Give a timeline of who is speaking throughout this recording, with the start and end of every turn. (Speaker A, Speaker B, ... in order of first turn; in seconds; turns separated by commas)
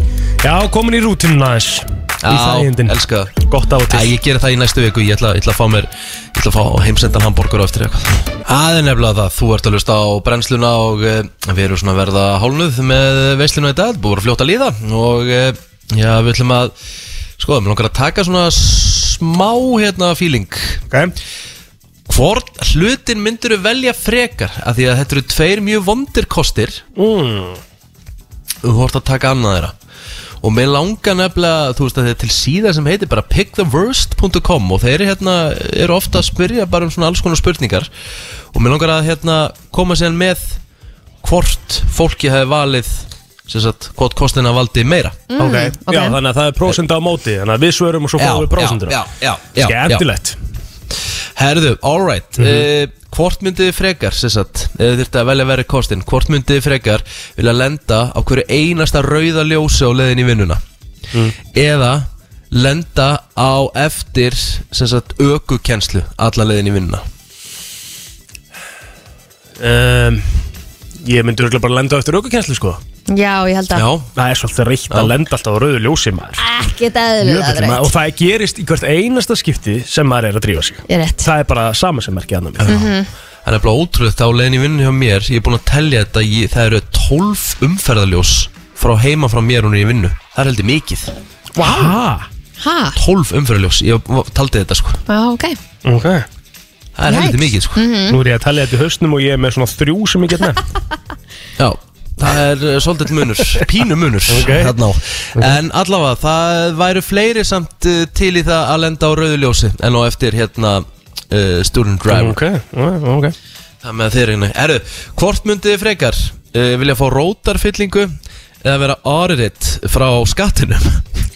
Speaker A: 0.4-4.1, Speaker B: 2.2-3.3, Speaker B: 3.9-16.7, Speaker B: 17.4-20.8, Speaker B: 22.1-26.8, Speaker A: 26.9-27.6, Speaker B: 28.6-29.7, Speaker B: 30.4-37.9, Speaker B: 38.5-40.6, Speaker B: 41.2-45.2, Speaker C: 45.3-46.2, Speaker A: 45.4-49.0, Speaker B: 48.2-50.0, Speaker A: 49.6-50.4, Speaker B: 51.4-60.6, Speaker A: 52.4-52.7, Speaker B: 61.5-67.0, Speaker A: 69.6-70.5, Speaker A: 71.0-72.8, Speaker C: 73.1-73.8, Speaker B: 73.7-74.1, Speaker A: 74.1-76.4, Speaker C: 76.4-77.9, Speaker A: 77.2-82.8, Speaker C: 80.9-81.3, Speaker B: 82.6-82.9, Speaker C: 82.7-83.1, Speaker B: 83.4-91.1, Speaker A: 91.5-92.3, Speaker C: 91.6-91.9, Speaker C: 92.6-93.0, Speaker B: 93.0-95.0, Speaker C: 95.1-95.6, Speaker A: 95.8-96.2, Speaker B: 97.0-97.8, Speaker C: 97.1-98.2, Speaker A: 98.1-100.6, Speaker B: 101.6-112.4, Speaker A: 104.3-104.8, Speaker A: 112.1-113.3, Speaker B: 113.8-121.0